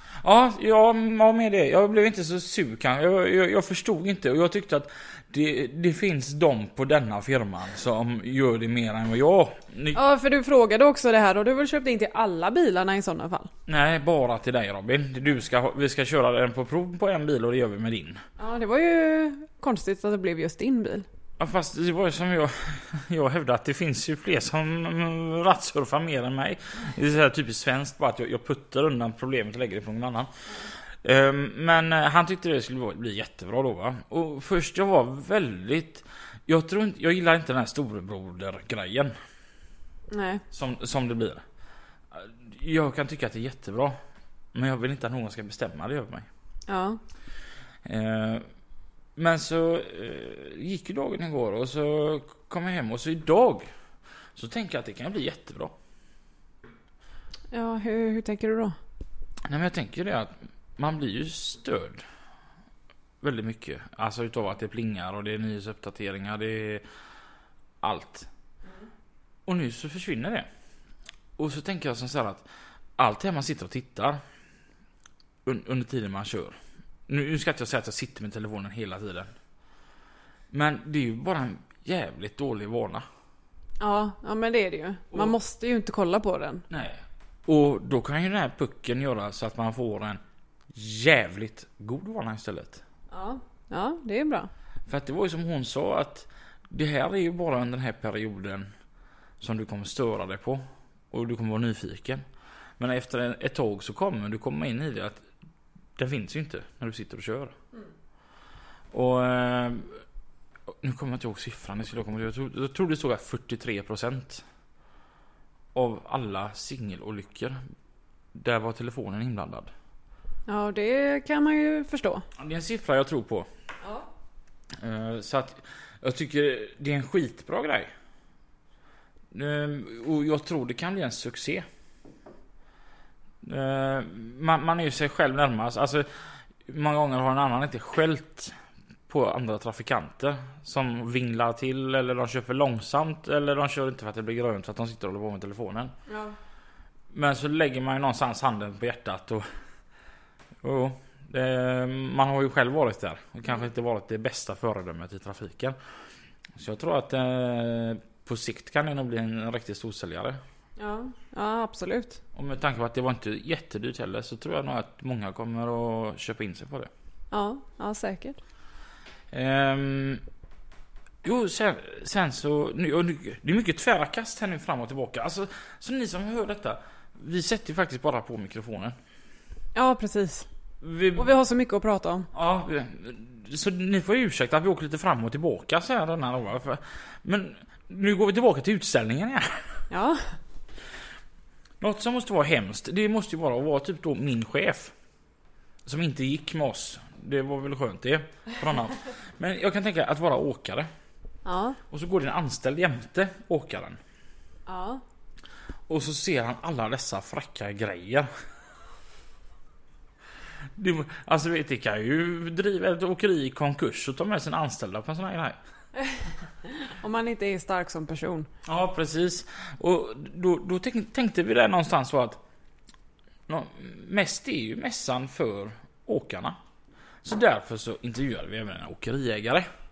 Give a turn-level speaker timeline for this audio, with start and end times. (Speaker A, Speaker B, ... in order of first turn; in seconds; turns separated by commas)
Speaker A: 0.2-10.0, Speaker B: 9.9-13.5, Speaker A: 13.7-18.2, Speaker B: 18.4-21.1, Speaker A: 21.4-30.3, Speaker A: 31.0-39.1, Speaker B: 40.1-40.4, Speaker A: 40.5-41.4, Speaker A: 42.1-44.0, Speaker A: 44.5-46.3, Speaker B: 46.7-47.0, Speaker A: 47.8-48.4, Speaker A: 49.1-53.7, Speaker A: 54.3-55.7, Speaker B: 57.5-58.7, Speaker A: 59.5-62.0, Speaker A: 63.2-66.8, Speaker A: 67.8-68.3, Speaker A: 69.5-70.5, Speaker A: 71.4-72.4, Speaker A: 73.0-74.2, Speaker A: 75.4-76.6, Speaker A: 77.1-79.3, Speaker A: 80.5-83.0, Speaker B: 83.8-86.6, Speaker A: 86.7-90.2, Speaker A: 90.7-92.8, Speaker B: 93.1-94.5, Speaker A: 94.9-98.7, Speaker A: 99.4-102.2, Speaker A: 102.8-105.2, Speaker A: 106.0-107.5, Speaker A: 108.9-110.0, Speaker A: 110.8-114.4, Speaker A: 115.7-117.6, Speaker A: 118.3-119.7, Speaker B: 120.5-122.2, Speaker A: 122.4-123.5, Speaker A: 124.8-127.9, Speaker A: 129.3-131.6, Speaker A: 133.4-136.1, Speaker A: 136.7-138.5, Speaker A: 139.1-145.9, Speaker B: 146.1-146.3, Speaker A: 147.1-149.4, Speaker A: 150.6-155.8, Speaker A: 156.6-160.4, Speaker B: 160.8-162.2, Speaker A: 162.3-166.9, Speaker B: 167.3-168.4, Speaker A: 169.3-170.2, Speaker A: 171.2-178.9, Speaker B: 179.7-180.5, Speaker A: 180.8-181.3, Speaker B: 181.1-182.3, Speaker A: 182.3-189.6, Speaker B: 189.9-190.2, Speaker A: 191.8-194.9, Speaker A: 195.8-200.9, Speaker B: 201.4-201.8, Speaker A: 201.9-204.0, Speaker B: 204.7-205.0, Speaker A: 205.9-208.3, Speaker A: 210.8-215.6, Speaker B: 216.0-218.5, Speaker A: 218.6-222.4, Speaker A: 223.5-226.6, Speaker A: 227.2-229.7